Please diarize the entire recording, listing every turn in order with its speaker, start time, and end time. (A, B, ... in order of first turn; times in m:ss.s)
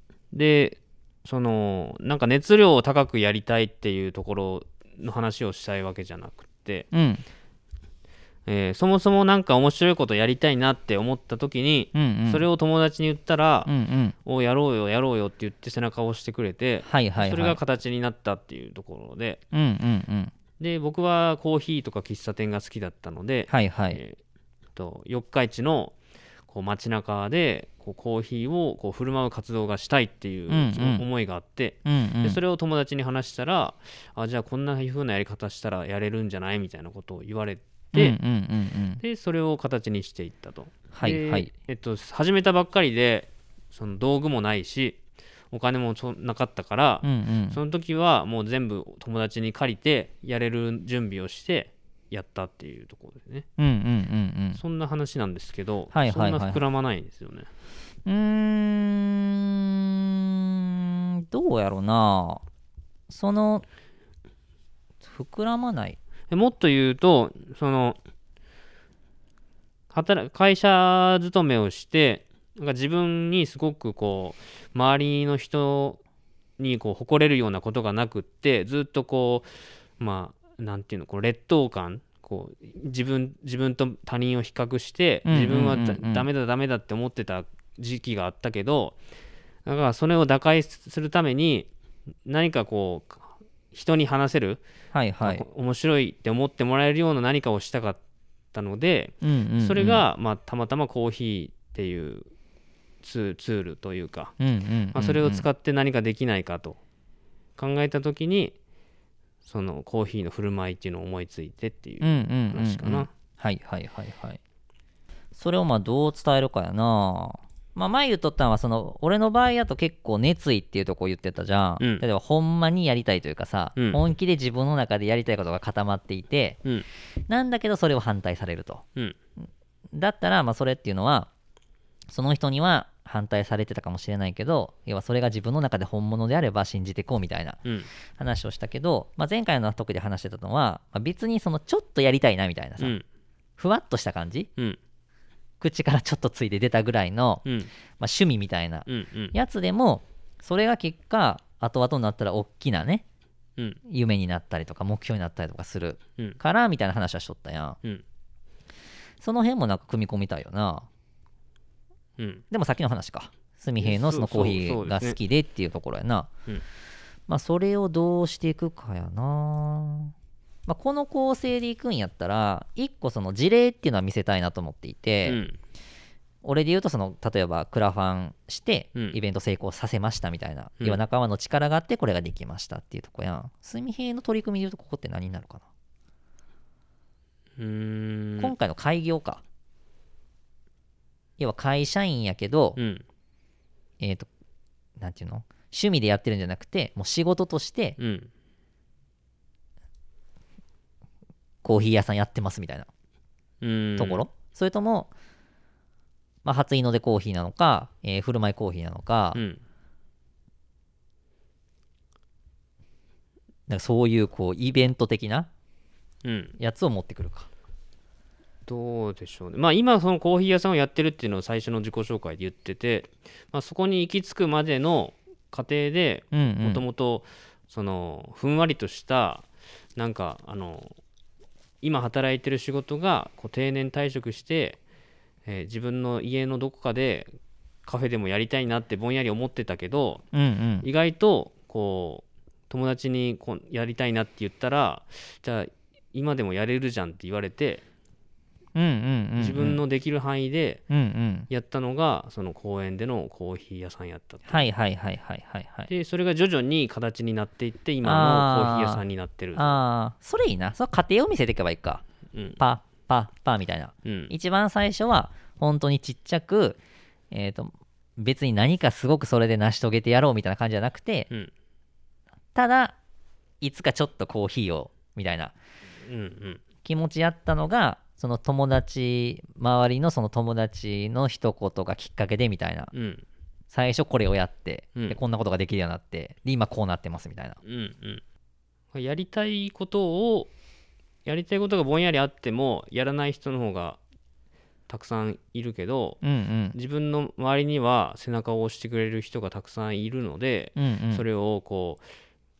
0:00.3-0:06.9 A
0:06.9-0:07.2 B
0:08.4-0:13.7 A
0:11.9-0:12.4 B
0:13.6-0:14.2 B
0:14.2-0:19.4 A
0:16.8-0:17.6 B
0:19.5-0:20.3 B
0:20.6-0:24.2 A
0:23.5-0:24.0 B
0:24.8-0:25.9 A
0:26.5-0:38.2 A
0:30.5-0:31.0 B
0:31.8-0:32.4 B
0:37.9-0:39.0 B
0:39.0-0:45.0 A
0:40.9-0:41.5 B
0:45.5-0:53.4 A
0:47.0-0:47.6 B
0:53.6-0:54.6 B
0:54.6-0:57.5 A
0:55.9-0:56.6 B
0:58.0-1:02.4 B
1:03.1-1:03.6 B
1:05.0-1:06.0 B
1:06.3-1:08.0 A
1:09.9-1:16.0 A
1:16.6-1:19.5 A
1:20.0-1:29.0 A
1:25.2-1:26.3 B
1:29.6-1:31.7 A
1:32.2-1:34.6 A
1:34.9-1:35.4 B
1:35.2-1:38.0 A
1:38.5-1:42.3 A
1:39.2-1:40.0 B
1:43.0-1:44.3 A
1:44.4-1:45.4 B
1:44.9-1:46.8 A
1:47.6-1:48.5 A
1:49.4-1:53.1 A
1:52.0-1:54.4 B
1:55.3-2:06.6 B
2:07.3-2:08.8 B
2:09.9-2:11.3 B
2:12.1-2:17.6 B
2:18.2-2:23.0 B
2:22.8-2:23.0 A
2:23.6-2:24.5 B
2:25.6-2:33.0 B
2:27.4-2:27.7 A
2:28.8-2:29.3 A
2:33.9-2:37.8 B
2:39.2-2:40.9 B
2:42.2-2:42.4 A
2:42.5-2:46.3 B
2:43.8-2:45.2 A
2:47.3-2:50.1 B
2:50.6-2:55.4 B
2:55.2-2:55.6 A
2:56.4-3:05.6 B
3:07.6-3:08.5 A
3:08.4-3:09.4 B
3:11.4-3:12.8 B
3:12.8-3:13.0 A
3:14.0-3:14.3 B
3:15.0-3:18.0 B
3:18.0-3:18.3 A
3:21.6-3:22.9 B
3:23.6-3:24.2 A
3:24.0-3:25.1 B
3:26.4-3:29.4 B
3:29.3-3:29.6 A
3:33.7-3:35.5 B
3:36.2-3:36.6 A
3:36.6-3:37.5 B
3:38.7-3:49.4 A
3:46.3-3:46.8 B
3:50.0-3:51.0 A
3:51.8-3:54.8 A
3:55.5-3:57.3 A
3:57.8-4:00.2 A
4:00.3-4:00.9 B
4:00.8-4:07.8 A
4:08.7-4:09.8 B
4:09.4-4:10.8 A
4:10.9-4:11.5 B
4:11.5-4:14.6 A
4:14.5-4:15.9 B
4:15.9-4:19.8 A
4:18.0-4:19.0 B
4:19.5-4:22.0 B
4:22.6-4:26.8 B
4:24.0-4:24.3 A
4:27.3-4:31.3 B
4:32.5-4:33.0 B
4:33.6-4:35.5 B
4:36.0-4:36.6 A
4:36.8-4:42.9 B
4:42.9-4:43.2 A
4:43.7-4:47.6 B
4:47.6-4:48.2 A
4:48.9-4:50.5 A
4:51.2-4:54.0 A
4:54.9-4:56.2 A
4:56.2-4:56.8 B
4:56.7-5:02.0 A
5:00.8-5:01.2 B